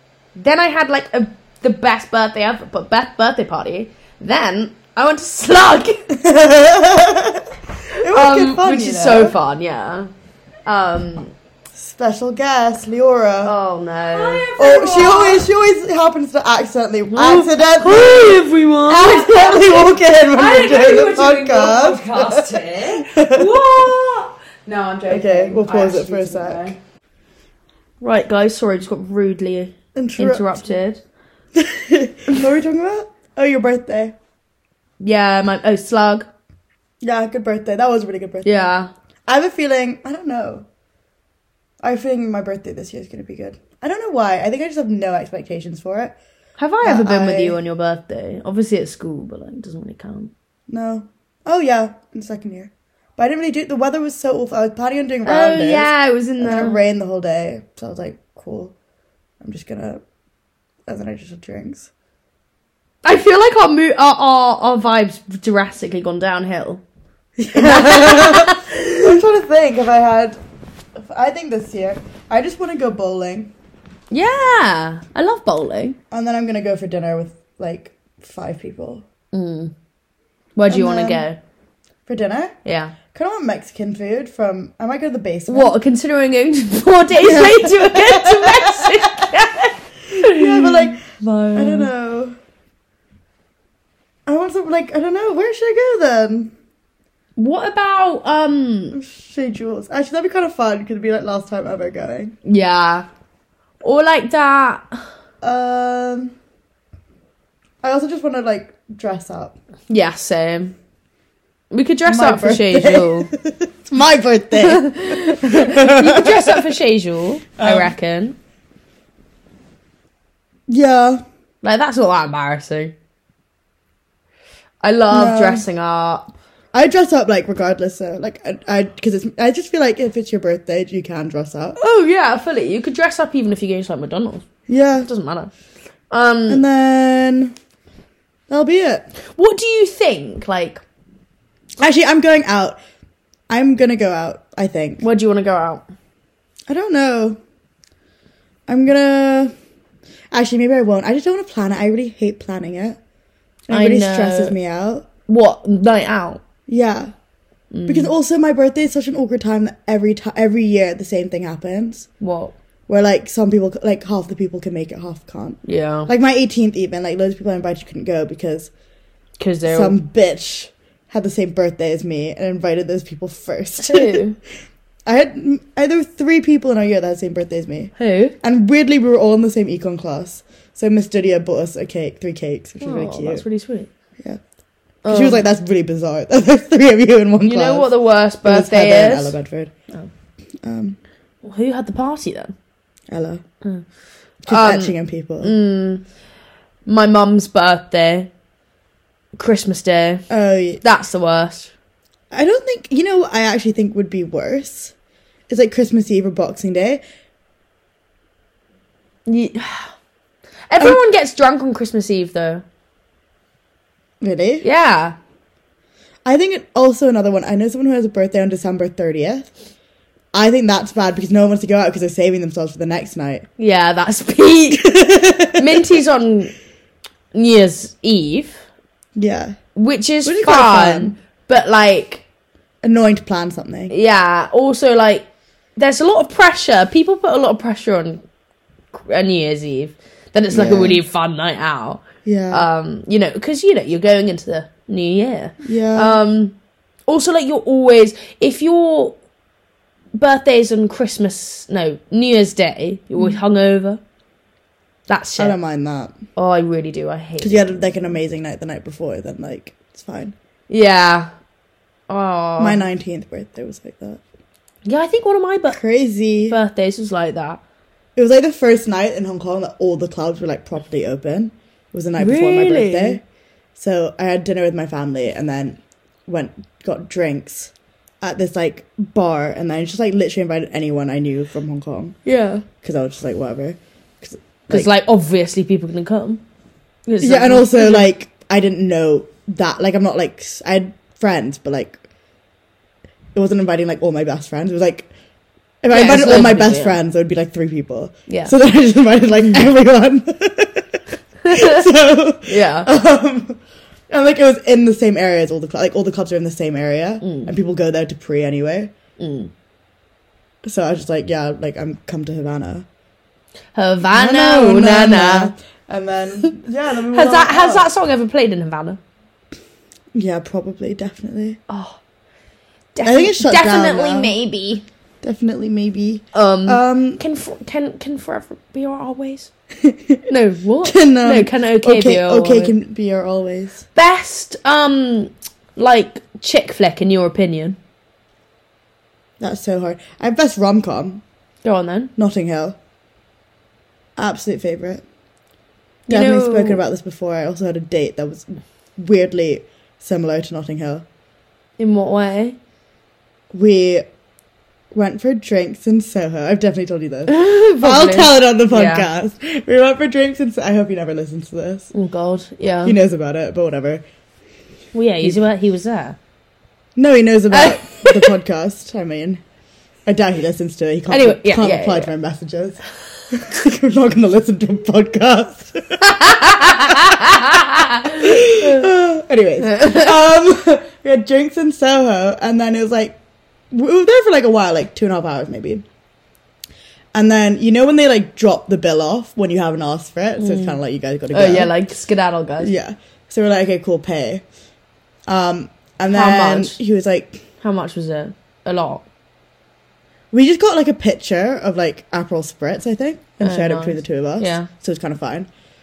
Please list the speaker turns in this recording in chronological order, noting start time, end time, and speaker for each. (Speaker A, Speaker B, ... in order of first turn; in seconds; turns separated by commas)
Speaker A: 0.3-6.1, Speaker B: 6.1-9.3, Speaker A: 8.0-10.1, Speaker A: 10.7-11.3, Speaker B: 11.7-13.5, Speaker A: 13.4-14.5, Speaker C: 14.1-15.5, Speaker B: 14.6-23.9, Speaker A: 17.1-17.4, Speaker C: 17.8-19.1, Speaker A: 18.9-20.0, Speaker C: 20.3-26.8, Speaker B: 25.1-26.8, Speaker A: 28.0-31.0, Speaker B: 29.9-30.6, Speaker B: 31.5-34.1, Speaker A: 35.0-36.3, Speaker B: 37.0-38.7, Speaker A: 38.4-38.9, Speaker B: 39.3-40.6, Speaker B: 41.8-46.1, Speaker A: 46.6-50.3, Speaker B: 46.8-47.6, Speaker B: 50.7-58.7, Speaker A: 55.2-56.8, Speaker B: 59.4-60.0, Speaker B: 60.9-61.9, Speaker A: 63.0-66.8, Speaker B: 67.4-70.4, Speaker A: 67.5-69.0, Speaker B: 70.9-73.5, Speaker A: 74.1-76.0, Speaker B: 76.1-79.0, Speaker A: 79.3-79.7, Speaker A: 80.5-81.4, Speaker B: 80.7-81.2, Speaker B: 82.1-82.5, Speaker A: 82.6-82.9, Speaker B: 83.1-85.8, Speaker A: 85.5-91.9, Speaker B: 87.1-89.2, Speaker B: 90.1-91.0, Speaker B: 91.5-92.4, Speaker B: 94.2-96.5, Speaker A: 97.4-99.0, Speaker B: 98.9-102.3, Speaker A: 102.5-103.0, Speaker A: 103.8-104.9, Speaker B: 105.4-106.3, Speaker B: 107.8-109.6, Speaker A: 109.9-110.8, Speaker A: 111.7-113.3, Speaker B: 112.0-116.7, Speaker A: 114.6-118.3, Speaker B: 117.6-117.9, Speaker B: 120.7-121.2, Speaker A: 121.6-122.9, Speaker A: 124.8-126.3, Speaker B: 125.1-125.6, Speaker B: 126.7-131.8, Speaker A: 131.8-134.4, Speaker B: 134.7-135.1, Speaker A: 135.0-135.5, Speaker A: 136.1-136.6, Speaker B: 136.5-137.5, Speaker B: 138.5-139.1, Speaker A: 139.3-140.8, Speaker B: 141.8-142.8, Speaker B: 143.5-145.0, Speaker A: 145.0-145.8, Speaker B: 146.7-147.4, Speaker B: 148.7-149.5, Speaker B: 150.3-153.0, Speaker B: 153.7-155.1, Speaker A: 153.7-154.5, Speaker A: 155.3-156.4, Speaker B: 156.7-157.1, Speaker A: 157.7-158.1, Speaker B: 157.8-162.1, Speaker A: 162.2-162.5, Speaker B: 162.9-168.7, Speaker A: 165.6-166.1, Speaker A: 169.4-170.0, Speaker B: 169.7-174.2, Speaker A: 173.8-174.4, Speaker B: 175.1-183.4, Speaker A: 178.0-178.3, Speaker A: 182.8-183.9, Speaker A: 185.0-185.4, Speaker B: 185.1-187.9, Speaker A: 187.4-189.3, Speaker B: 188.4-189.7, Speaker B: 190.6-191.0, Speaker A: 191.4-192.5, Speaker B: 193.1-193.4, Speaker B: 194.4-195.5, Speaker A: 194.5-196.0, Speaker A: 196.8-198.3, Speaker A: 199.3-200.2, Speaker B: 200.3-200.8, Speaker A: 200.8-201.7, Speaker B: 202.3-204.9, Speaker B: 205.5-207.0, Speaker A: 209.2-209.9, Speaker A: 210.7-212.6, Speaker B: 214.2-214.6, Speaker A: 214.6-215.2, Speaker B: 216.2-219.5, Speaker B: 220.3-223.5, Speaker A: 223.6-224.9, Speaker B: 224.7-225.8, Speaker A: 225.5-226.5, Speaker A: 227.3-228.6, Speaker B: 229.2-229.6, Speaker A: 229.7-232.2, Speaker B: 230.2-231.2, Speaker B: 232.8-233.9, Speaker A: 233.9-238.2, Speaker A: 238.9-246.6, Speaker B: 240.5-241.0, Speaker B: 242.2-242.7, Speaker B: 245.6-246.2, Speaker A: 247.1-249.2, Speaker A: 250.1-254.0, Speaker A: 255.1-255.6, Speaker B: 255.4-256.2, Speaker A: 256.4-258.1, Speaker B: 257.4-260.3, Speaker A: 260.7-261.3, Speaker A: 262.1-262.8, Speaker B: 262.6-264.2, Speaker A: 264.8-265.8, Speaker B: 265.7-266.6, Speaker A: 266.5-267.6, Speaker B: 268.1-273.2, Speaker A: 272.2-273.2, Speaker B: 273.8-282.2, Speaker A: 282.2-282.6, Speaker B: 282.8-284.9, Speaker A: 284.7-286.4, Speaker A: 287.1-288.1, Speaker B: 287.2-292.0, Speaker B: 293.3-295.1, Speaker B: 295.8-303.6, Speaker A: 295.9-297.0, Speaker A: 298.3-298.5, Speaker A: 301.4-301.8, Speaker A: 302.4-302.9, Speaker B: 304.1-308.9, Speaker A: 307.2-307.5, Speaker A: 309.2-309.5, Speaker B: 310.6-312.9, Speaker A: 313.7-315.5, Speaker B: 314.0-317.9, Speaker A: 317.1-319.0, Speaker B: 320.1-321.6, Speaker A: 321.7-322.0, Speaker A: 322.9-324.8, Speaker B: 323.0-324.3, Speaker B: 325.2-327.2, Speaker A: 326.3-329.5, Speaker B: 329.8-330.2, Speaker A: 330.3-332.7, Speaker B: 330.8-333.8, Speaker A: 333.9-337.8, Speaker B: 339.4-341.2, Speaker A: 341.6-342.1, Speaker B: 342.2-342.8, Speaker B: 344.2-345.0, Speaker A: 346.1-346.8, Speaker B: 346.1-351.1, Speaker A: 351.8-352.6, Speaker B: 353.5-354.0, Speaker B: 354.9-361.9, Speaker A: 357.3-359.1, Speaker A: 361.9-363.0, Speaker B: 362.8-364.0, Speaker A: 364.9-366.2, Speaker B: 366.9-369.4, Speaker A: 367.5-368.3, Speaker B: 370.1-372.8, Speaker A: 371.1-372.1, Speaker B: 373.3-377.3, Speaker A: 376.1-378.7, Speaker B: 378.0-383.2, Speaker A: 379.7-380.1, Speaker B: 383.7-385.8, Speaker B: 387.1-391.7, Speaker A: 390.4-390.8, Speaker A: 391.3-392.7, Speaker B: 392.6-394.4, Speaker B: 395.3-397.4, Speaker A: 396.1-396.8, Speaker A: 397.6-399.0, Speaker B: 400.3-405.5, Speaker A: 403.4-404.7